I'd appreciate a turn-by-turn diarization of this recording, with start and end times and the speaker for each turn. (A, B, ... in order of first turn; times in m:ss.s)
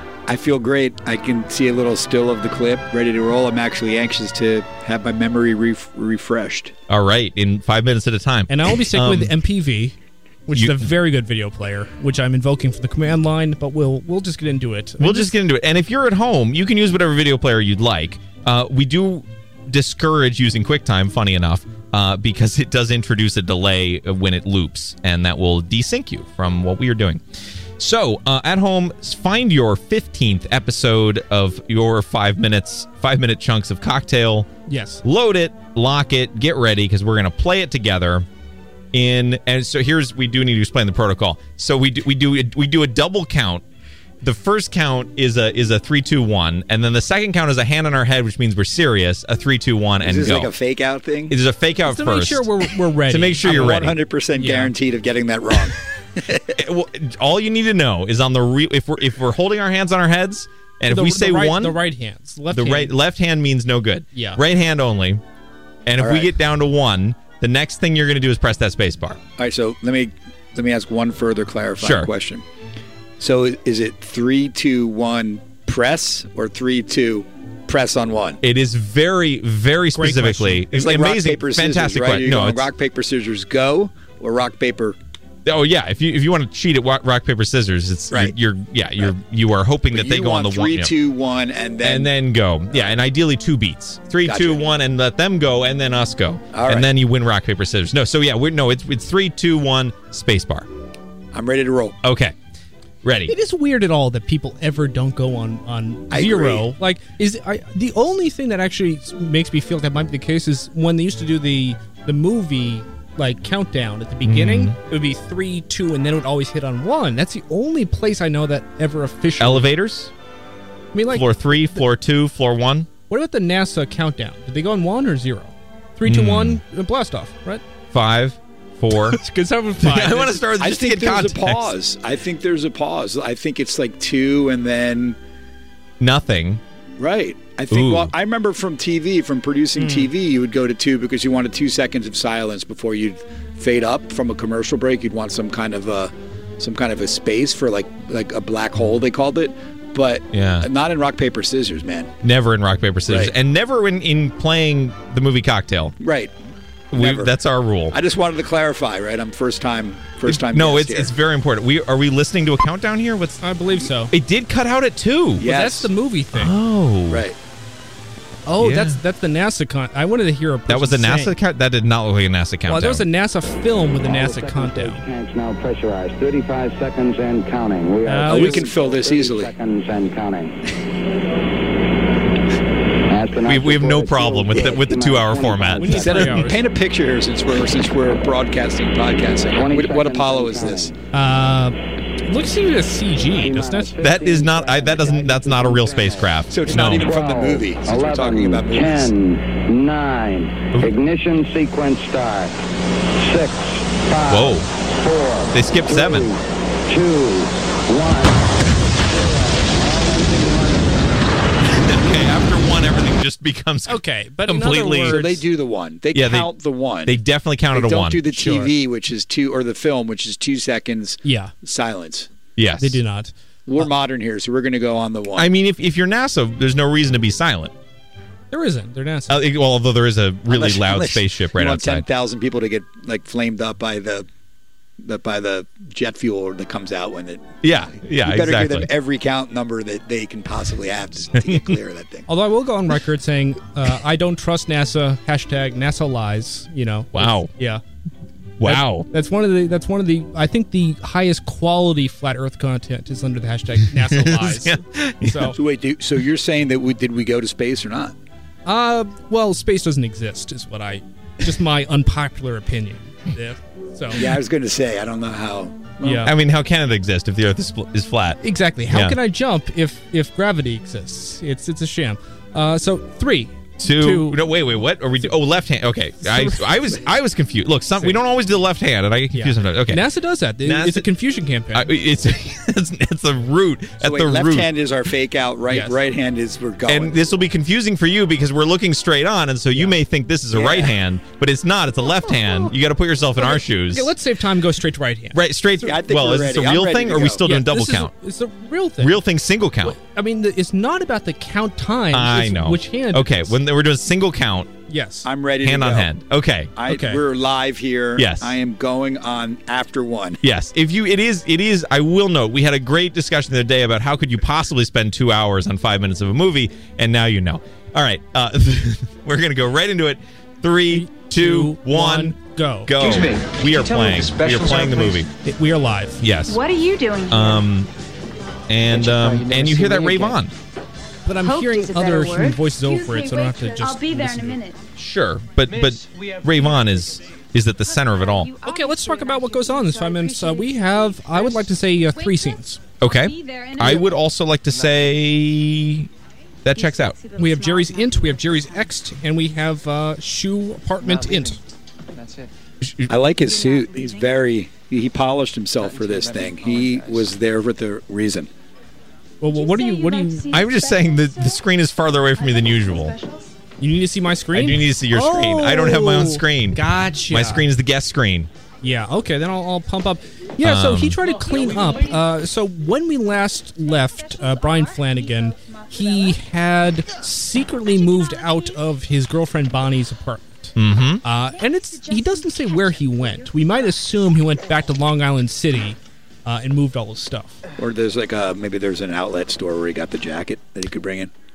0:00.3-0:06.7 A
0:06.9-0:09.3 B
0:08.5-0:10.0 C
0:10.5-0:15.4 C
0:10.5-0:10.9 B
0:15.0-0:27.2 B
0:27.8-0:34.5 B
0:34.7-0:35.0 C
0:35.0-0:38.3 B
0:38.9-0:43.6 B
0:44.2-0:50.5 B
0:50.0-0:51.4 A
0:51.3-0:54.0 B
0:51.9-0:54.7 C
0:53.4-0:56.4 A
0:56.5-1:01.8 B
1:00.9-1:02.9 C
1:02.5-1:05.2 B
1:04.1-1:04.4 C
1:05.9-1:09.2 B
1:06.0-1:06.3 A
1:09.4-1:12.4 A
1:11.8-1:12.1 B
1:13.2-1:18.4 A
1:18.4-1:22.7 B
1:19.9-1:20.7 C
1:20.7-1:25.0 A
1:25.5-1:30.9 B
1:28.1-1:28.4 A
1:29.9-1:32.1 A
1:31.8-1:40.7 B
1:32.7-1:33.0 A
1:34.2-1:34.7 A
1:36.5-1:36.9 A
1:41.3-1:42.0 A
1:42.0-1:42.4 B
1:43.0-1:43.3 B
1:43.3-1:59.7 C
1:46.1-1:46.7 A
1:54.2-1:54.8 B
1:59.4-2:00.1 B
2:00.9-2:01.8 C
2:01.1-2:02.9 B
2:03.1-2:07.6 C
2:06.0-2:06.6 B
2:07.9-2:09.2 B
2:09.1-2:10.4 C
2:09.8-2:11.7 B
2:10.6-2:15.2 A
2:16.0-2:16.6 B
2:17.0-2:32.1 A
2:17.7-2:18.1 B
2:19.8-2:20.1 C
2:30.3-2:30.7 B
2:32.2-2:36.0 B
2:33.1-2:33.3 A
2:36.0-2:36.3 A
2:36.9-2:38.0 B
2:36.9-2:37.3 A
2:37.9-2:41.1 A
2:40.3-2:45.4 B
2:43.4-2:44.1 C
2:45.4-2:45.9 A
2:45.4-2:46.5 C
2:46.3-2:47.3 B
2:47.1-2:47.4 A
2:48.5-2:51.4 C
2:48.6-2:49.0 B
2:50.7-2:53.0 B
2:52.7-2:55.0 C
2:54.0-3:00.6 D
2:58.1-2:58.7 C
2:58.3-2:59.5 A
3:03.1-3:06.2 D
3:03.4-3:06.4 B
3:05.8-3:06.6 C
3:05.9-3:10.9 A
3:09.5-3:10.9 D
3:11.1-3:14.0 C
3:13.4-3:22.6 D
3:14.0-3:17.1 B
3:16.5-3:19.1 A
3:23.2-3:31.1 D
3:24.3-3:24.7 B
3:25.5-3:26.3 B
3:31.7-3:35.2 B
3:33.9-3:35.4 C
3:35.1-3:37.2 A
3:36.1-3:36.5 B
3:37.0-3:38.2 B
3:37.7-3:42.3 A
3:38.3-3:38.7 C
3:41.2-3:41.5 C
3:42.6-3:43.0 B
3:42.8-3:43.3 C
3:43.7-3:45.5 A
3:45.4-3:47.7 B
3:48.5-3:49.4 C
3:49.3-3:52.0 B
3:50.5-3:54.3 A
3:55.0-4:02.3 A
3:57.6-3:58.9 B
4:01.4-4:01.7 B
4:02.3-4:07.8 C
4:07.1-4:07.5 B
4:08.6-4:09.1 B
4:08.6-4:15.6 C
4:14.1-4:15.6 B
4:15.5-4:18.2 A
4:18.7-4:24.2 C
4:24.1-4:26.3 A
4:26.0-4:26.3 C
4:26.2-4:29.2 B
4:28.4-4:34.4 C
4:33.8-4:40.1 B
4:36.2-4:36.9 C
4:39.3-4:41.9 C
4:40.6-4:41.0 B
4:41.7-4:44.7 B
4:44.0-4:47.2 A
4:45.7-4:46.0 C
4:46.9-4:54.1 B
4:50.5-4:51.0 A
4:52.0-4:52.7 C
4:53.4-4:55.4 C
4:55.3-4:58.1 B
4:55.8-4:57.4 A
4:57.4-4:59.2 C
4:59.0-5:00.0 B
4:59.8-5:03.6 C
5:02.1-5:04.7 B
5:04.9-5:05.3 C
5:05.2-5:06.1 A
5:05.6-5:06.7 B
5:06.8-5:10.4 A
5:06.9-5:07.2 C
5:08.2-5:08.6 B
5:10.4-5:25.3 B
5:20.9-5:22.9 C
5:23.0-5:25.3 E
5:25.4-5:26.2 C
5:26.2-5:26.6 B
5:26.5-5:27.7 F
5:27.3-5:27.9 B
5:28.7-5:30.5 B
5:28.9-5:30.4 E
5:31.3-5:34.6 C
5:31.4-5:34.8 F
5:35.0-5:38.5 B
5:35.6-5:36.8 E
5:37.8-5:44.1 F
5:38.6-5:42.8 C
5:43.0-5:46.1 B
5:43.8-5:44.1 C
5:44.7-5:45.2 E
5:46.6-5:47.2 B
5:46.8-5:48.9 F
5:47.4-5:51.6 C
5:51.0-5:51.6 E
5:52.1-5:52.5 E
5:52.8-5:53.1 B
5:53.1-5:58.5 A
5:53.4-5:54.4 F
5:55.8-5:57.4 E
5:59.4-6:00.6 C
5:59.5-6:01.6 F
6:00.5-6:03.2 B
6:02.4-6:03.5 F
6:03.8-6:07.7 C
6:04.5-6:08.5 B
6:08.8-6:27.6 C
6:10.6-6:11.2 B
6:11.6-6:11.9 E
6:13.8-6:16.4 F
6:17.9-6:18.8 F
6:20.8-6:21.2 B
6:21.5-6:24.4 F
6:27.8-6:31.3 A